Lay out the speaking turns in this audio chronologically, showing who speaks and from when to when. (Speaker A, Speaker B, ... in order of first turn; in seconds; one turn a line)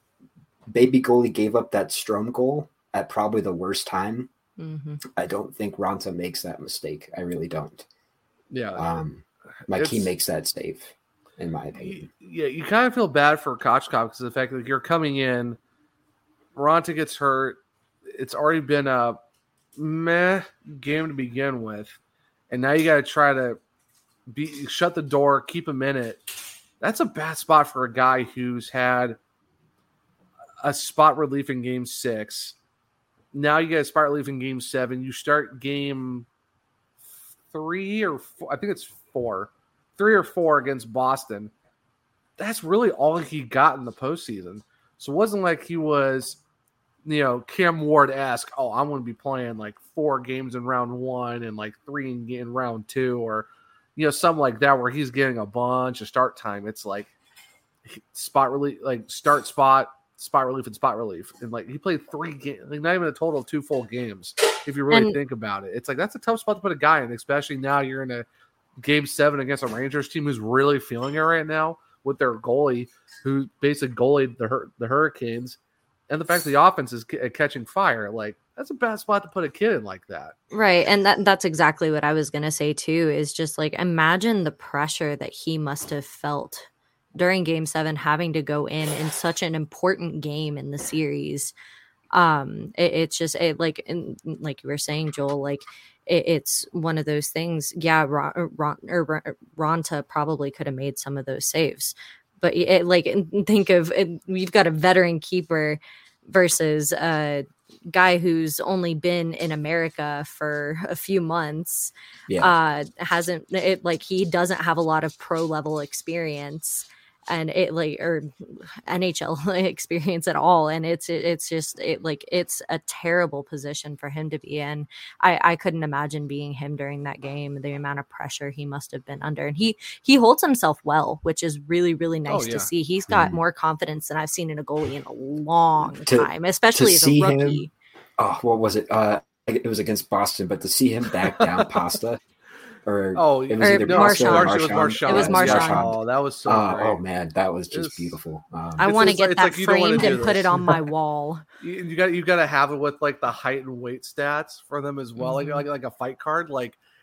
Speaker A: 0.7-4.3
Speaker B: 4.6-5.0
Speaker A: 5.0-7.9
Speaker C: 8.5-8.8
Speaker A: 8.7-12.1
Speaker C: 9.7-10.1
Speaker C: 11.8-15.6
Speaker C: 16.5-19.2
Speaker C: 19.8-22.0
Speaker C: 22.5-23.6
Speaker C: 24.3-26.2
Speaker C: 26.8-29.2
Speaker C: 30.6-32.5
Speaker C: 33.3-36.2
Speaker C: 37.5-41.5
Speaker C: 42.4-46.4
Speaker C: 47.0-57.1
Speaker C: 57.9-68.2
Speaker B: 64.9-65.2
Speaker C: 68.8-75.6
Speaker C: 76.1-80.3
Speaker B: 80.5-91.5
Speaker B: 92.1-137.7
Speaker A: 112.3-112.5
Speaker C: 132.3-132.7
Speaker A: 133.1-133.4
Speaker A: 135.9-137.6
Speaker A: 138.2-142.2
Speaker C: 141.2-141.8
Speaker A: 142.8-149.2
Speaker C: 143.1-147.0
Speaker B: 143.6-145.9
Speaker C: 147.7-148.2
Speaker B: 148.8-151.4
Speaker C: 148.8-150.8
Speaker C: 151.6-156.8
Speaker B: 155.2-155.6